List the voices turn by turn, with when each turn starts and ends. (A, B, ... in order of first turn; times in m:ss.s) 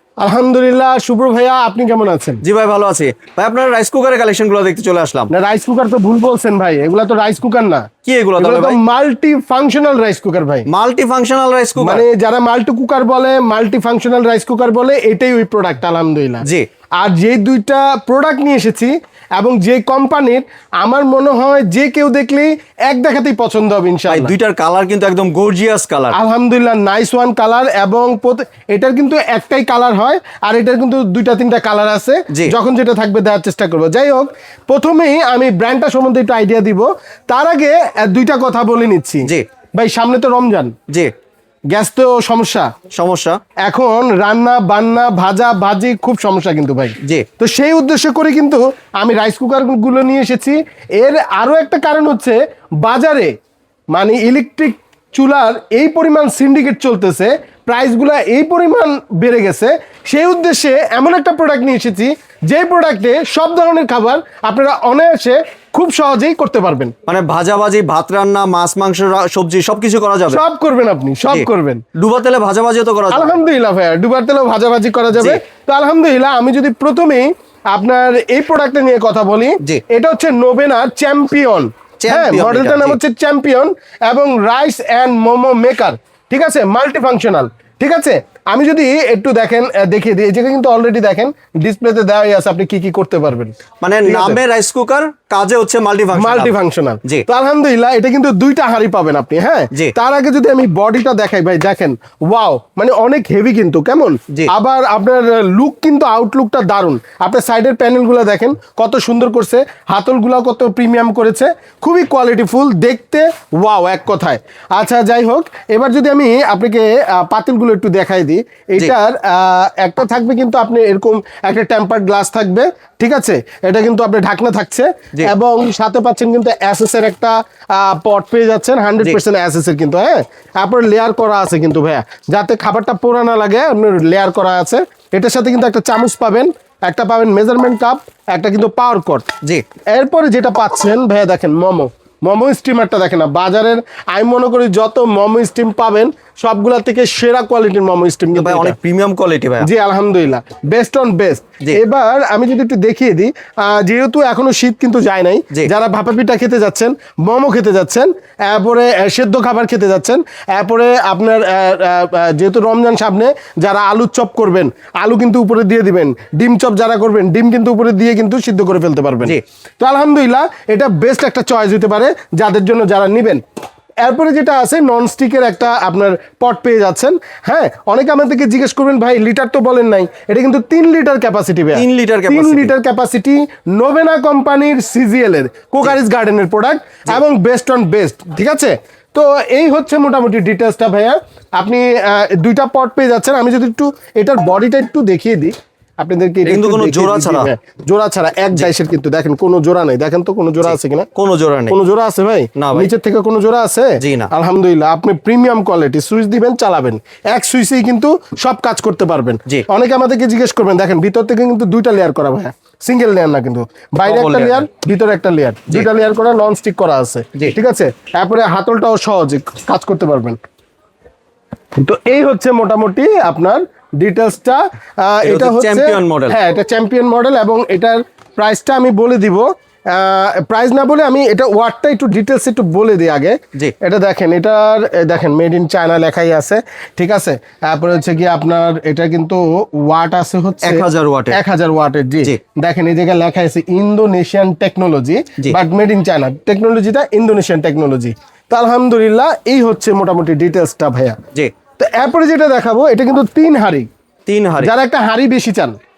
0:00.2-0:02.4 A
0:02.4-0:05.3 B
0:05.3-0:07.9 A
0:08.0-0:08.8 B
0:08.4-0:10.7 A
0:10.7-0:12.0 B
0:11.8-0:16.4 A
0:17.0-0:24.3 A
0:24.1-0:26.2 B
0:26.1-0:40.7 A
0:41.7-0:42.7 A
0:42.9-0:43.4 B
0:43.6-0:53.3 A
0:53.9-1:06.9 A
1:07.1-1:10.4 B
1:10.3-1:11.8 A
1:11.3-1:13.4 B
1:13.1-1:33.5 A
1:22.0-1:23.0 B
1:33.8-1:37.2 B
1:34.0-1:34.4 A
1:36.1-2:19.3 A
2:19.9-2:28.8 A
2:28.3-2:29.7 B
2:29.6-2:53.4 A
2:54.0-3:21.1 A
3:01.7-3:02.7 B
3:16.4-3:17.5 B
3:20.6-3:21.8 B
3:21.7-3:40.4 A
3:22.6-3:22.9 B
3:24.0-3:24.3 B
3:34.0-3:34.6 B
3:41.8-4:11.2 A
3:45.2-3:46.4 B
4:00.6-4:01.4 B
4:11.8-4:13.9 A
4:14.2-4:14.7 B
4:14.6-4:15.8 A